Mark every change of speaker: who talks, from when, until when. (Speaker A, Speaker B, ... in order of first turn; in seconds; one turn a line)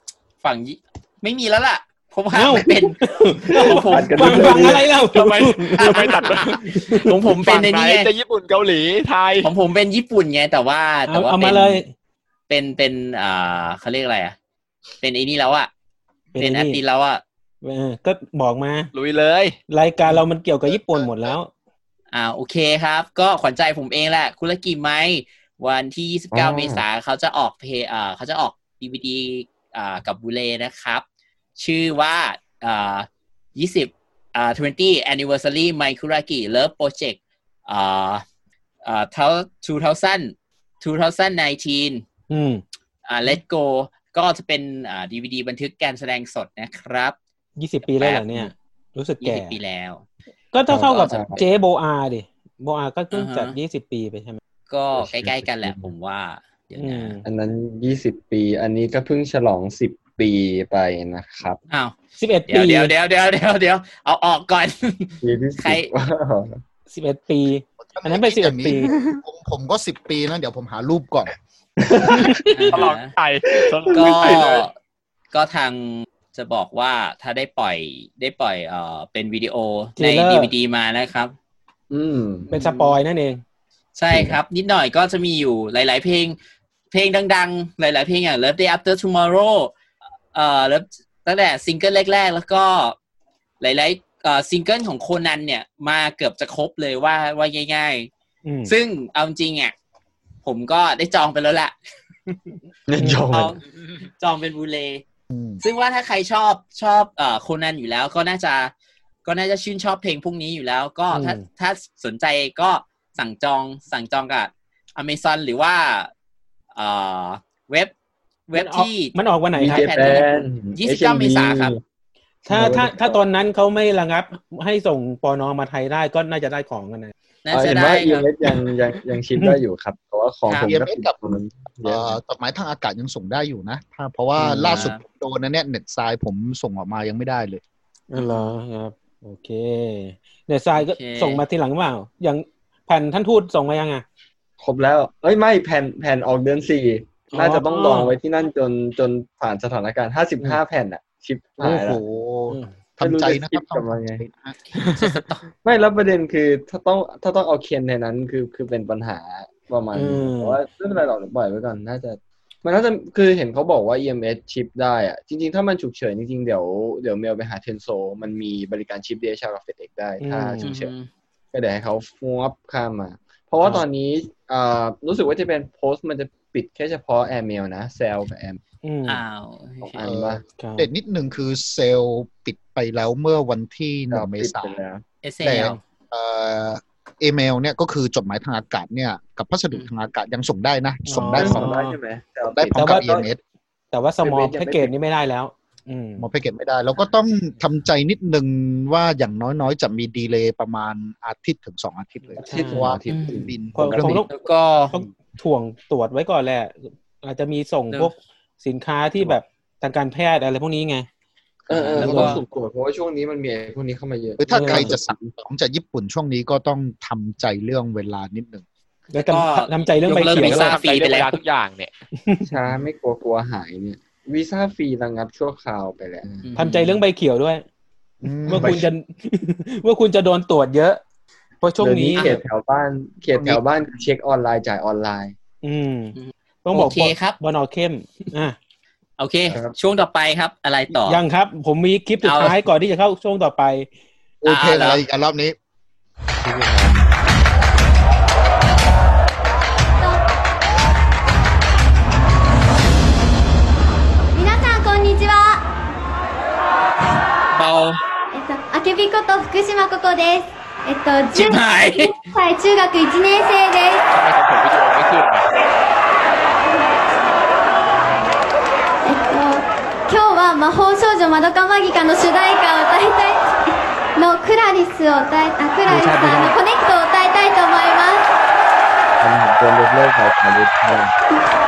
Speaker A: 0.4-4.6
Speaker B: 2.3-6.0
Speaker C: 3.8-4.9
Speaker D: 5.0-6.7
Speaker A: 5.8-8.1
Speaker B: 6.6-7.0
Speaker D: 7.3-9.5
Speaker A: 9.4-11.8
Speaker B: 11.1-11.9
Speaker A: 12.5-14.3
Speaker A: 15.0-15.7
Speaker B: 16.3-16.8
Speaker A: 16.4-17.2
Speaker B: 17.6-18.9
Speaker D: 18.9-19.6
Speaker B: 19.7-21.5
Speaker E: 20.7-21.1
Speaker A: 22.1-31.0
Speaker C: 26.3-26.8
Speaker A: 31.6-38.2
Speaker A: 38.8-42.0
Speaker B: 42.3-42.6
Speaker A: 43.1-47.2
Speaker B: 47.6-49.5
Speaker A: 47.8-48.5
Speaker A: 49.2-50.0
Speaker B: 50.5-54.4
Speaker C: 50.7-51.4
Speaker A: 53.1-53.5
Speaker A: 54.7-57.2
Speaker C: 54.9-55.9
Speaker B: 56.8-57.2
Speaker C: 57.2-61.6
Speaker A: 61.7-62.0
Speaker B: 62.2-62.9
Speaker A: 62.5-65.9
Speaker C: 65.2-66.6
Speaker B: 66.9-68.9
Speaker E: 67.8-71.3
Speaker B: 71.9-72.8
Speaker A: 72.5-73.1
Speaker D: 72.7-74.6
Speaker C: 73.5-74.5
Speaker A: 73.9-74.7
Speaker A: 75.3-81.3
Speaker B: 80.0-80.5
Speaker C: 81.9-82.5
Speaker A: 82.5-83.0
Speaker B: 82.5-83.4
Speaker A: 84.0-86.4
Speaker C: 84.1-84.4
Speaker A: 86.9-89.7
Speaker A: 90.3-93.0
Speaker A: 93.6-98.1
Speaker B: 98.5-98.7
Speaker A: 98.7-99.7
Speaker A: 100.4-101.7
Speaker A: 102.3-102.5
Speaker C: 102.9-103.6
Speaker A: 103.3-105.0
Speaker E: 105.3-105.6
Speaker A: 105.6-108.7
Speaker A: 109.2-116.1
Speaker B: 111.1-111.4
Speaker A: 116.7-117.9
Speaker A: 118.5-121.7
Speaker B: 118.5-119.9
Speaker C: 119.5-121.8
Speaker B: 122.5-127.1
Speaker C: 122.5-123.2
Speaker A: 127.4-128.3
Speaker C: 127.5-132.2
Speaker A: 130.5-130.7
Speaker E: 130.7-131.2
Speaker E: 131.8-137.6
Speaker A: 134.4-135.0
Speaker B: 138.1-144.0
Speaker A: 138.2-138.5
Speaker A: 140.7-141.4
Speaker C: 144.6-152.0
Speaker B: 147.3-148.2
Speaker E: 151.6-154.5
Speaker B: 152.5-152.7
Speaker C: 153.0-154.2
Speaker A: 154.7-155.5
Speaker C: 155.6-170.9
Speaker B: 159.9-160.6
Speaker B: 170.2-170.7
Speaker A: 170.6-171.1
Speaker C: 171.5-178.6
Speaker B: 178.8-179.2
Speaker A: 179.1-180.0
Speaker C: 179.8-180.4
Speaker E: 180.0-184.8
Speaker B: 180.6-180.9
Speaker C: 184.1-185.0
Speaker A: 185.2-185.8
Speaker E: 185.4-191.7
Speaker B: 191.1-191.9
Speaker C: 191.2-193.2
Speaker E: 192.5-193.4
Speaker B: 192.8-193.0
Speaker B: 193.9-196.2
Speaker C: 194.2-194.9
Speaker E: 196.2-204.0
Speaker C: 202.3-204.5
Speaker B: 202.5-202.8
Speaker A: 203.1-203.5
Speaker B: 203.8-204.3
Speaker A: 204.2-204.9
Speaker B: 204.9-211.1
Speaker A: 211.7-212.4
Speaker C: 211.7-215.1
Speaker B: 212.0-212.4
Speaker E: 214.4-218.6
Speaker B: 214.5-214.9
Speaker A: 219.1-221.4
Speaker B: 219.1-220.7
Speaker D: 220.3-221.9
Speaker C: 222.4-226.5
Speaker A: 226.4-227.0
Speaker B: 226.6-227.6
Speaker E: 228.2-228.8
Speaker B: 228.5-231.0
Speaker C: 228.5-228.9
Speaker B: 231.6-232.3
Speaker C: 231.8-235.3
Speaker E: 233.3-233.6
Speaker B: 235.6-238.6
Speaker A: 236.2-237.3
Speaker A: 239.2-241.2
Speaker C: 239.5-239.8
Speaker B: 241.1-243.9
Speaker A: 242.2-242.6
Speaker E: 244.4-245.5
Speaker A: 244.4-245.0
Speaker C: 246.4-246.9
Speaker F: 254.3-255.7
Speaker A: 257.5-258.0
Speaker F: 258.3-264.0
Speaker A: 261.3-262.1
Speaker D: 264.1-265.5
Speaker F: 266.7-267.0
Speaker F: 269.0-278.2
Speaker B: 275.9-276.6
Speaker C: 279.2-281.1